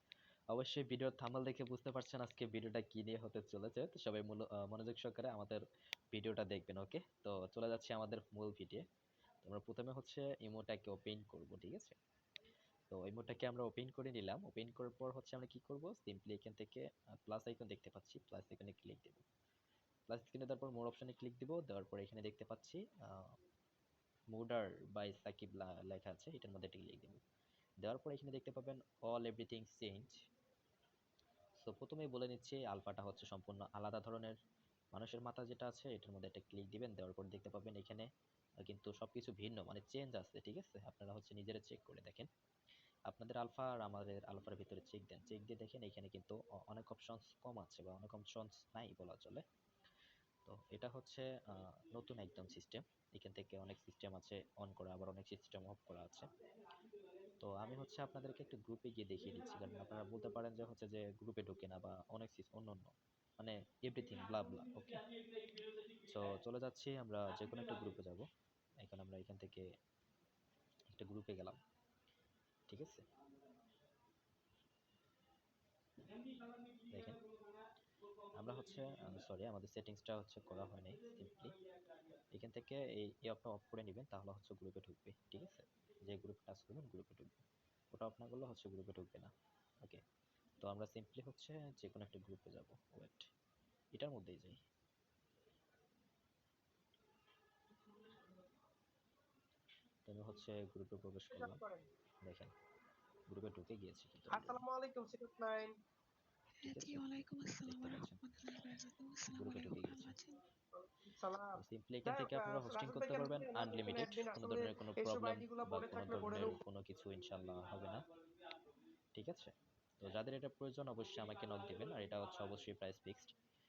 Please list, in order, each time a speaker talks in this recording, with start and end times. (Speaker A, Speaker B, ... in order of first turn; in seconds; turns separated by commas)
Speaker A: 0.5-8.8, Speaker A: 9.4-12.0, Speaker A: 12.9-19.2, Speaker A: 20.1-23.2, Speaker A: 24.3-27.2, Speaker A: 27.8-30.1, Speaker A: 31.6-34.3, Speaker A: 34.9-38.1, Speaker A: 38.6-42.3, Speaker A: 43.1-49.4, Speaker A: 50.5-56.3, Speaker A: 57.4-65.0, Speaker A: 66.0-68.3, Speaker A: 68.8-69.7, Speaker A: 70.9-71.6, Speaker A: 72.7-73.0, Speaker A: 76.9-77.2, Speaker A: 78.3-81.5, Speaker A: 82.3-89.3, Speaker A: 90.6-93.3, Speaker A: 93.9-94.6, Speaker A: 100.1-101.6, Speaker B: 101.3-101.9, Speaker A: 102.2-102.5, Speaker A: 103.3-104.6, Speaker B: 104.3-105.7, Speaker C: 106.6-110.4, Speaker A: 106.6-107.1, Speaker A: 107.6-108.2, Speaker A: 109.3-110.2, Speaker B: 110.8-111.5, Speaker A: 111.5-118.0, Speaker B: 112.0-116.6, Speaker A: 119.1-123.3